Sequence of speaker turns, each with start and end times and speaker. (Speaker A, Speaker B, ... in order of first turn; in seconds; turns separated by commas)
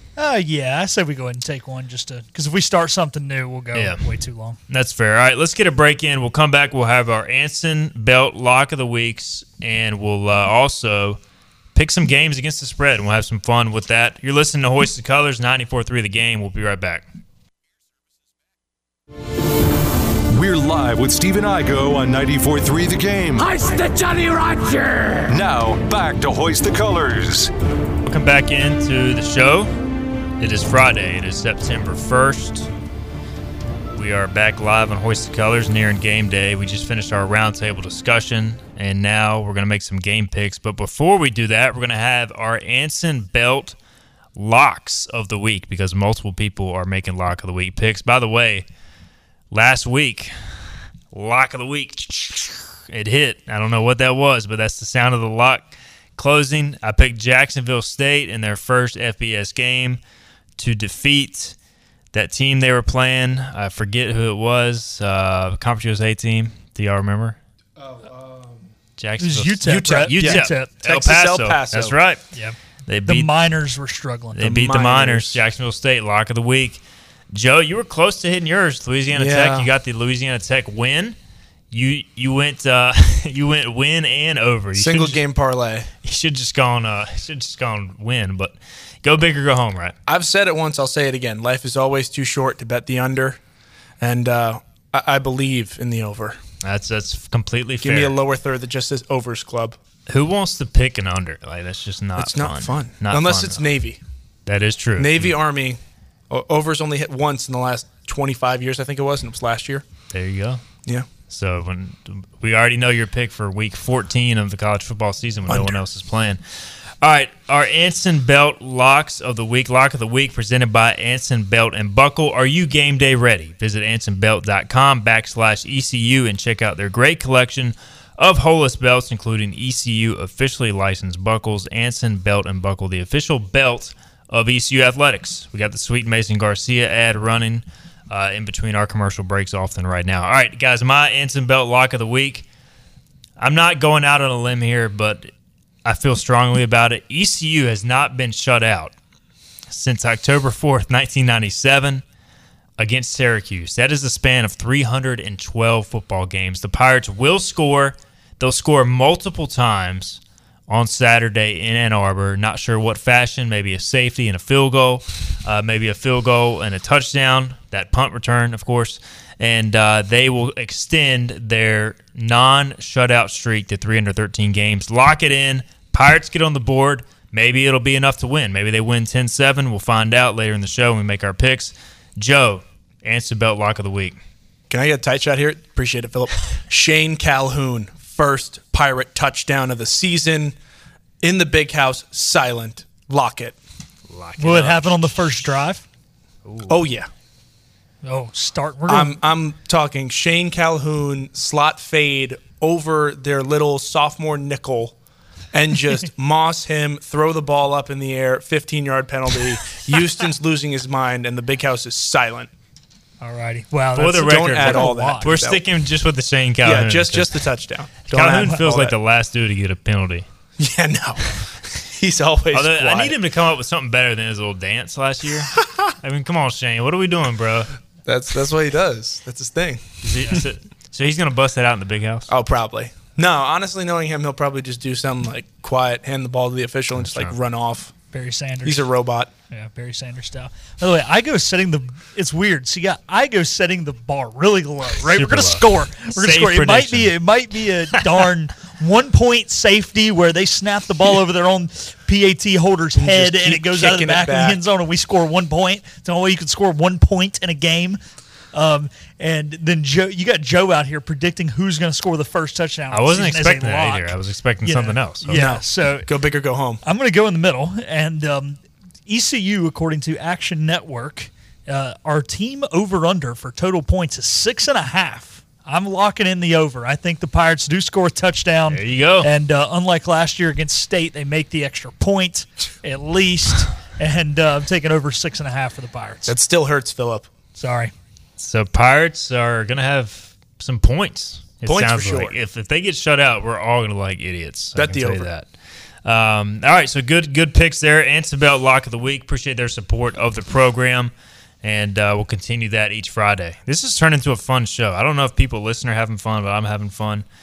Speaker A: 0.2-4.6, Speaker B: 3.7-4.0, Speaker B: 4.7-11.2, Speaker B: 11.7-17.1, Speaker C: 20.3-23.7, Speaker D: 23.4-25.4, Speaker C: 25.3-27.5, Speaker B: 28.0-29.7, Speaker B: 30.4-32.7, Speaker B: 33.9-43.7, Speaker B: 44.4-48.6, Speaker B: 49.5-60.0, Speaker B: 60.6-61.5, Speaker B: 62.1-67.4, Speaker B: 69.0-72.3, Speaker A: 69.2-70.7, Speaker E: 69.6-72.0, Speaker A: 72.3-74.4, Speaker B: 72.9-73.3, Speaker B: 74.3-81.2, Speaker E: 74.4-75.4, Speaker E: 79.1-79.7, Speaker B: 81.7-85.2, Speaker E: 84.8-85.9, Speaker B: 86.0-90.0, Speaker E: 90.1-93.4, Speaker E: 94.0-96.4, Speaker B: 96.6-98.1, Speaker E: 97.8-99.8, Speaker B: 100.1-103.6, Speaker E: 102.2-104.0, Speaker B: 104.5-105.3, Speaker E: 105.0-109.8, Speaker B: 110.1-110.6, Speaker B: 111.3-142.5, Speaker E: 115.5-115.8, Speaker B: 143.4-145.3, Speaker B: 145.8-148.9, Speaker B: 149.7-152.0, Speaker B: 152.8-184.2, Speaker E: 184.7-190.6, Speaker E: 191.2-193.6, Speaker B: 194.1-195.4, Speaker A: 194.4-195.8, Speaker B: 196.4-196.8, Speaker E: 196.7-197.1, Speaker A: 198.0-199.2, Speaker E: 198.9-204.9, Speaker E: 205.5-212.5, Speaker A: 213.2-215.3, Speaker B: 213.9-217.4, Speaker E: 214.2-215.6, Speaker E: 216.6-218.9, Speaker B: 218.1-220.2, Speaker E: 220.6-223.1, Speaker B: 222.5-227.7, Speaker E: 228.0-230.4, Speaker B: 230.0-232.3, Speaker E: 232.3-237.9, Speaker B: 237.0-237.3, Speaker A: 238.1-238.9, Speaker E: 238.6-239.3, Speaker A: 239.5-258.0, Speaker B: 245.0-247.1, Speaker B: 247.9-248.2, Speaker E: 252.9-254.6, Speaker A: 258.5-266.1, Speaker B: 262.9-265.4, Speaker E: 265.3-266.8, Speaker A: 266.8-286.3, Speaker B: 278.7-279.3, Speaker E: 286.2-287.3, Speaker A: 287.5-287.9, Speaker B: 288.4-295.5, Speaker E: 291.6-292.4, Speaker E: 294.7-295.3, Speaker B: 296.0-307.2